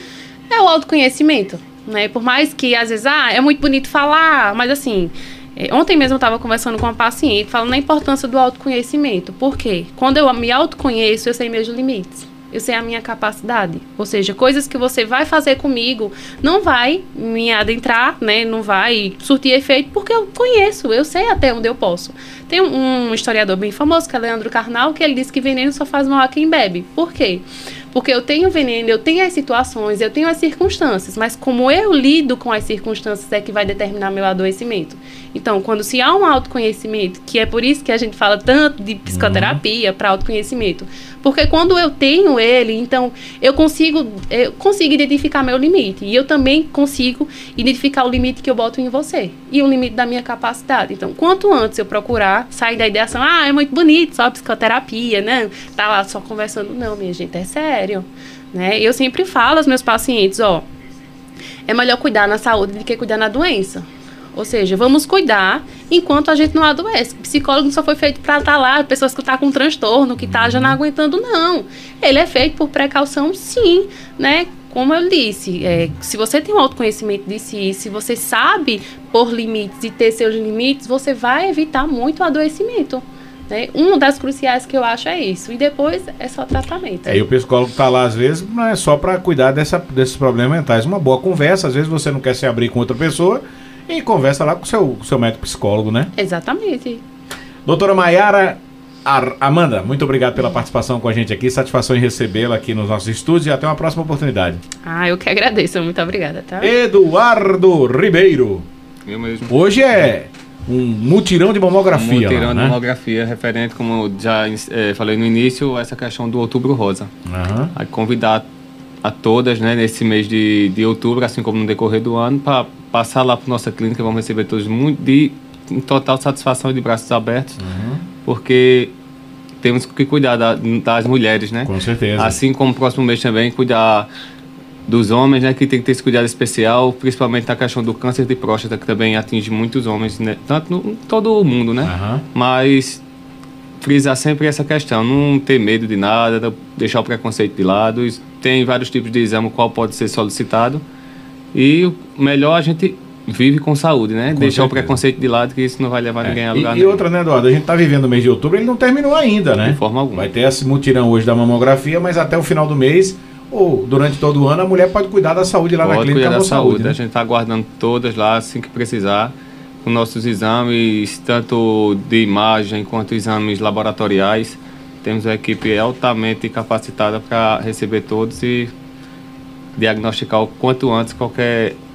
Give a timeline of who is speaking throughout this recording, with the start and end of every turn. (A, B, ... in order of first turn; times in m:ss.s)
0:00.5-1:00.7 A
0:39.1-0:39.6 B
1:01.7-1:27.3 A
1:10.3-1:10.8 B
1:27.0-1:36.1 B
1:36.2-1:37.0 A
1:37.6-1:44.6 B
1:44.8-1:46.7 A
1:46.6-1:48.6 B
1:49.0-1:49.5 C
1:49.5-1:52.8 B
1:51.9-1:57.1 C
1:57.3-1:57.7 B
1:57.7-1:58.4 C
1:59.0-2:07.6 C
2:07.6-2:08.0 B
2:08.2-2:08.9 C
2:09.6-2:14.1 C
2:11.6-2:12.4 B
2:14.9-2:23.0 C
2:21.8-2:22.2 B
2:23.8-2:30.8 C
2:31.5-2:37.0 C
2:34.3-2:35.0 B
2:36.2-2:47.0 B
2:39.6-2:40.3 C
2:45.8-2:49.3 C
2:49.8-2:58.7 C
2:59.8-3:01.8 C